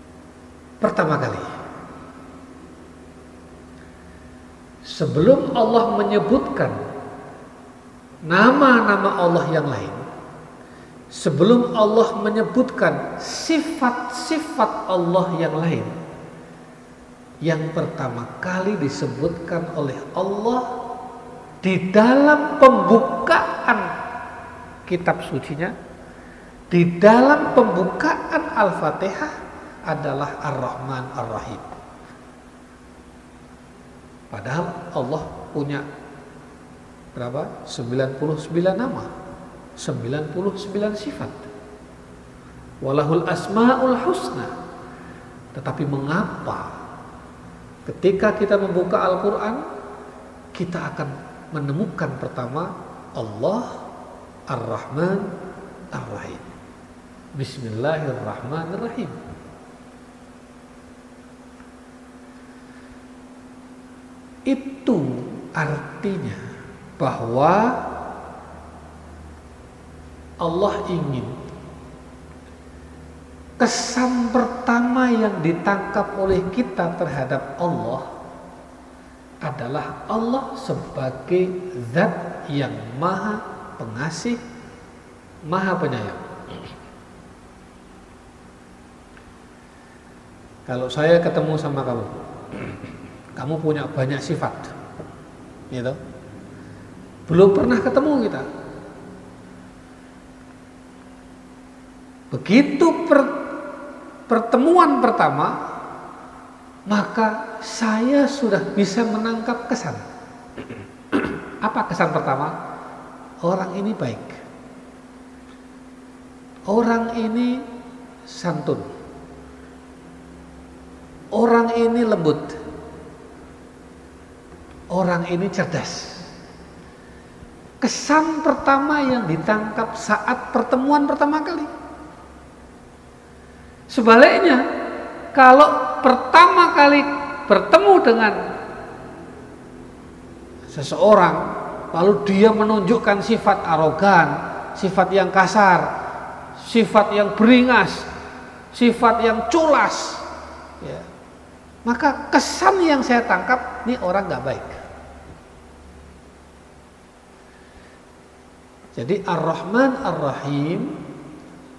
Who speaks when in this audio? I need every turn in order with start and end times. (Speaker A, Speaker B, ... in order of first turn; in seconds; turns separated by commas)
Speaker A: 0.8-1.5, Speaker A: 4.8-6.8, Speaker A: 8.2-10.0, Speaker A: 11.1-15.9, Speaker A: 17.4-20.7, Speaker A: 21.6-23.9, Speaker A: 24.9-25.7, Speaker A: 26.7-29.3, Speaker A: 29.9-31.8, Speaker A: 34.3-35.8, Speaker A: 37.1-39.1, Speaker A: 39.8-41.5, Speaker A: 42.8-44.5, Speaker A: 45.5-46.7, Speaker A: 47.9-49.6, Speaker A: 50.5-53.8, Speaker A: 54.5-55.3, Speaker A: 55.9-56.5, Speaker A: 57.4-59.2, Speaker A: 64.5-66.4, Speaker A: 67.0-67.9, Speaker A: 70.4-71.3, Speaker A: 73.6-78.1, Speaker A: 79.4-84.4, Speaker A: 85.5-86.2, Speaker A: 90.7-92.2, Speaker A: 93.3-94.8, Speaker A: 95.7-96.0, Speaker A: 97.3-98.4, Speaker A: 102.3-103.3, Speaker A: 104.3-105.6, Speaker A: 106.9-110.0, Speaker A: 111.2-112.6, Speaker A: 113.4-114.4, Speaker A: 116.7-117.7, Speaker A: 118.2-118.9, Speaker A: 121.3-122.6, Speaker A: 124.9-126.2, Speaker A: 127.8-131.7, Speaker A: 133.9-134.6, Speaker A: 135.3-138.4, Speaker A: 140.7-145.9, Speaker A: 146.6-148.1, Speaker A: 148.7-150.2, Speaker A: 150.8-151.1, Speaker A: 151.8-154.8, Speaker A: 158.9-161.0